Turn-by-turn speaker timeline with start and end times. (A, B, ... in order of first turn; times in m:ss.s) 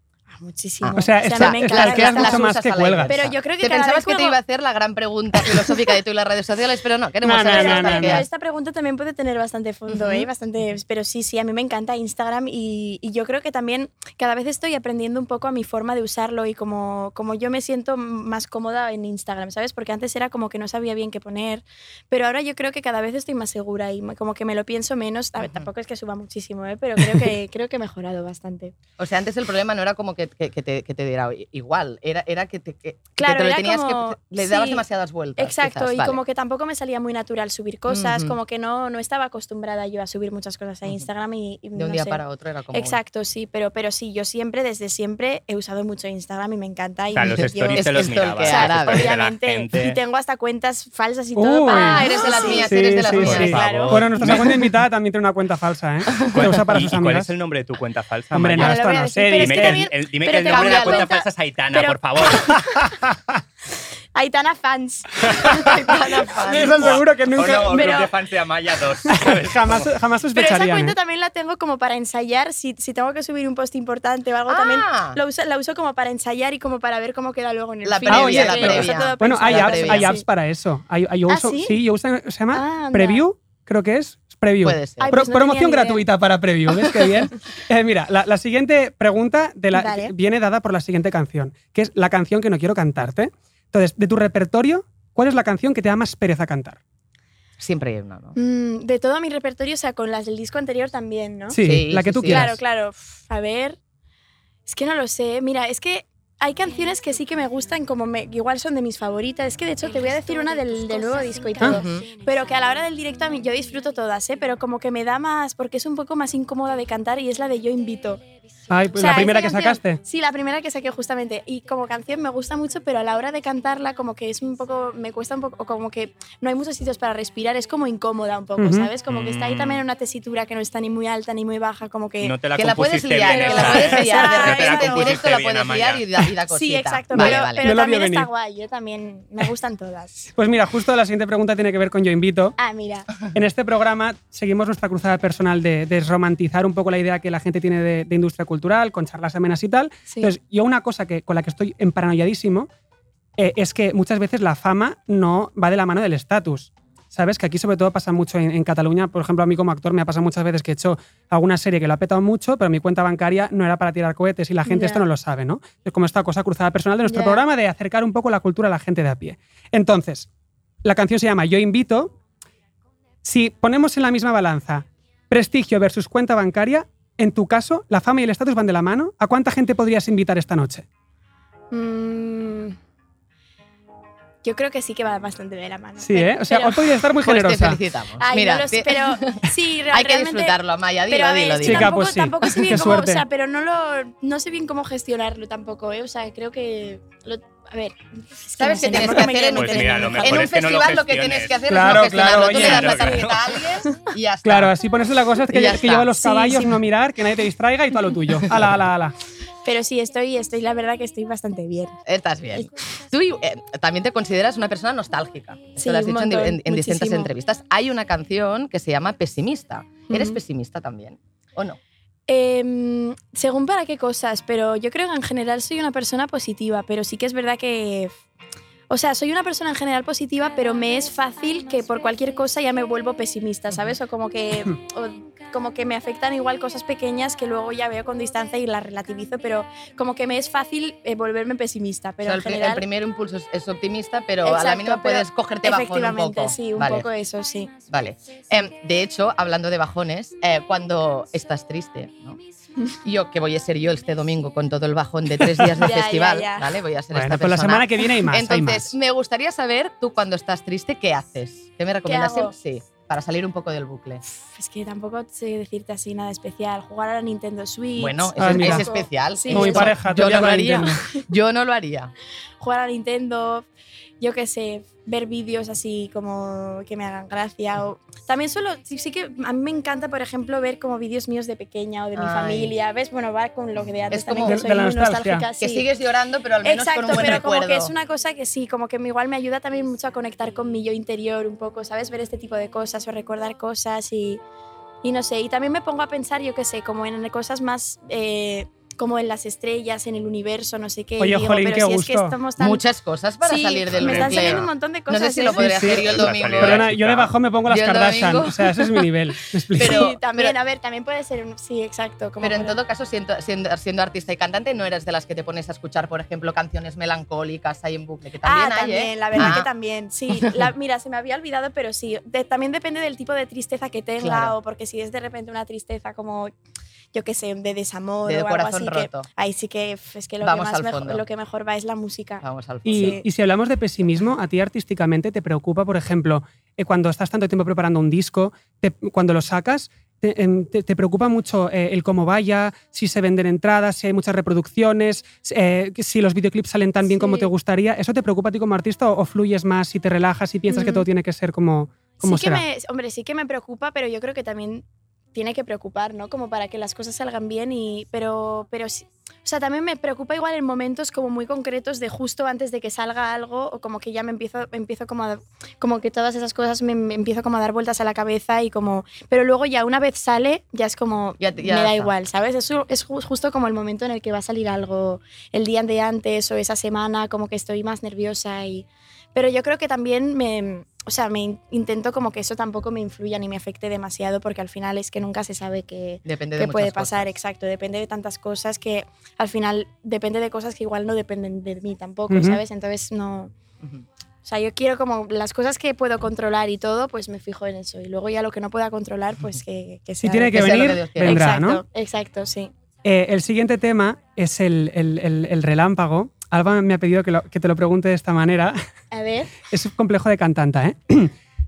0:00.3-0:02.4 A
0:00.8-0:08.3 B
0:01.0-0:03.2 C
0:03.1-0:04.4 A
0:07.2-0:08.2 C
0:07.5-0:28.7 A
0:09.9-0:10.3 B
0:25.4-0:25.7 B
0:29.0-0:36.2 B
0:33.2-0:34.8 A
0:35.4-0:42.2 A
0:37.9-0:38.4 B
0:41.8-0:43.0 B
0:42.7-0:54.3 A
0:47.1-0:50.0 D
0:47.7-0:49.1 B
0:51.4-0:57.3 C
0:51.7-0:54.4 B
0:53.2-0:54.5 D
0:56.2-0:58.8 D
0:58.3-0:59.9 C
0:58.6-1:02.6 A
0:59.4-1:02.6 D
1:00.4-1:01.1 B
1:04.2-1:05.7 A
1:05.4-1:07.0 B
1:06.3-1:08.0 C
1:06.8-1:09.9 D
1:07.7-1:08.1 A
1:09.1-1:11.0 C
1:10.3-1:20.3 A
1:14.5-1:15.2 B
1:17.8-1:20.2 B
1:18.1-1:36.8 C
1:21.3-1:21.8 A
1:22.5-1:23.2 A
1:24.6-1:25.1 B
1:25.0-1:26.0 A
1:29.7-1:30.1 A
1:37.6-1:38.4 B
1:38.4-1:41.6 A
1:41.5-1:42.6 C
1:41.6-1:42.5 B
1:42.2-1:43.8 A
1:44.7-1:58.2 A
1:51.6-1:52.1 B
1:58.7-2:00.0 C
1:59.0-2:12.4 A
2:08.6-2:08.9 C
2:09.1-2:09.8 D
2:12.2-2:16.0 D
2:12.6-2:17.6 B
2:13.2-2:15.1 A
2:16.5-2:20.3 A
2:17.1-2:18.3 C
2:20.4-2:22.6 C
2:22.6-2:23.1 A
2:23.3-2:32.7 C
2:30.1-2:30.4 A
2:33.4-2:50.3 C
2:44.7-2:45.0 A
2:47.0-2:47.4 A
2:50.8-2:52.1 C
2:53.2-3:00.8 C
3:01.7-3:02.8 A
3:04.4-3:06.8 A
3:06.0-3:07.8 C
3:07.2-3:12.0 B
3:08.2-3:10.6 A
3:11.1-3:20.5 A
3:11.6-3:13.2 C
3:18.6-3:24.7 B
3:19.6-3:21.6 D
3:21.7-3:23.2 C
3:22.4-3:23.6 D
3:24.4-3:29.2 C
3:25.5-3:26.1 B
3:26.2-3:26.7 A
3:29.6-3:32.0 A
3:32.1-3:41.8 B
3:35.8-3:37.3 A
3:40.1-3:40.4 A
3:42.3-3:48.1 A
3:48.9-4:02.8 A
4:02.2-4:07.1 B
4:04.4-4:07.7 A
4:07.9-4:12.4 B
4:13.0-4:24.2 B
4:15.8-4:16.7 A
4:17.1-4:19.0 C
4:22.0-4:22.5 A
4:24.3-4:30.0 A
4:28.0-4:32.1 B
4:28.4-4:28.9 C
4:29.5-4:31.0 C
4:32.6-4:33.7 A
4:34.2-4:45.9 A
4:42.2-4:42.7 B
4:44.1-4:44.6 B
4:44.5-4:45.5 C
4:45.6-4:47.9 B
4:46.6-4:54.4 A
4:47.1-4:47.4 C
4:55.0-5:02.8 A
5:01.2-5:02.4 C
5:02.6-5:06.9 B
5:03.4-5:05.7 A
5:03.9-5:04.6 D
5:05.6-5:10.0 C
5:05.9-5:07.3 D
5:07.7-5:09.0 B
5:09.7-5:10.6 B
5:09.8-5:12.8 A
5:12.4-5:19.7 B
5:18.4-5:26.5 A
5:24.2-5:24.5 B
5:27.1-5:33.2 A
5:28.3-5:29.3 B
5:30.4-5:31.2 B
5:32.4-5:33.2 B
5:32.9-5:52.6 C
5:47.1-5:47.5 A
5:50.7-5:51.1 A
5:52.2-6:33.5 A
6:11.4-6:12.1 B
6:26.2-6:27.3 B
6:32.3-6:32.6 C
6:34.4-6:42.7 A
6:40.2-6:41.8 C
6:40.5-6:41.5 B
6:43.0-6:48.8 C
6:49.1-6:49.5 A
6:49.7-6:51.3 C